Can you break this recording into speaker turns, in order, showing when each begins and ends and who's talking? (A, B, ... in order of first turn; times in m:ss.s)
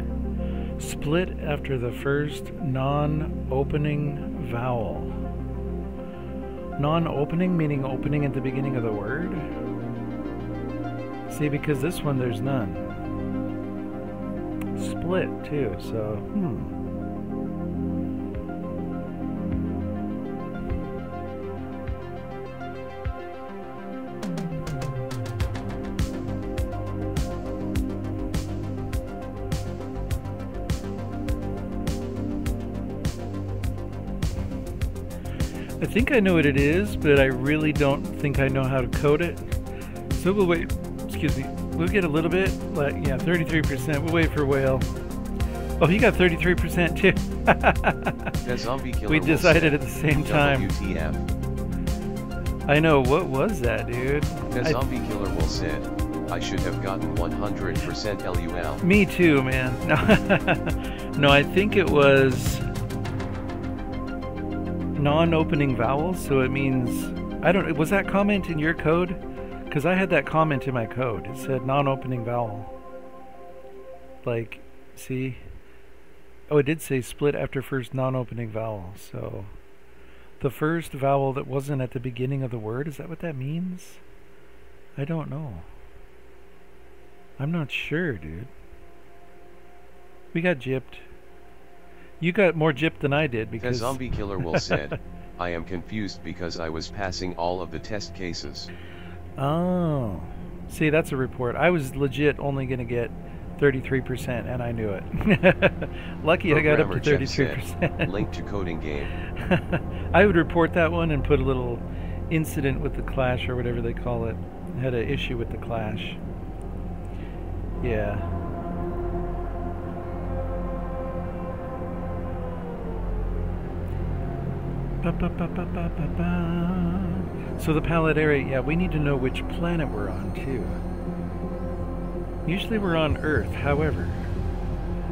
0:00.8-0:05.2 A
0:06.8-0:09.5 A
0:11.3-0:13.0 A
0:14.8-0:16.8 A
0:35.8-0:39.5 A
0:40.1-0:44.9 A
0:45.8-0:48.4 A
0:48.4-0:51.2 B
0:49.1-0:50.7 A
0:52.7-0:54.8 A
0:54.6-0:58.8 B
0:58.8-1:02.7 A
1:05.0-1:12.7 A
1:14.2-1:15.4 A
1:16.5-1:19.5 A
1:20.4-1:24.0 A
1:25.0-1:25.7 A
1:27.4-1:28.5 A
1:30.3-1:31.0 A
1:32.2-1:34.9 A
1:33.6-1:38.7 B
1:39.4-1:48.1 A
1:46.5-1:49.1 B
1:49.2-1:56.2 A
1:57.8-1:58.4 A
2:05.0-2:10.8 A
2:12.5-2:14.3 A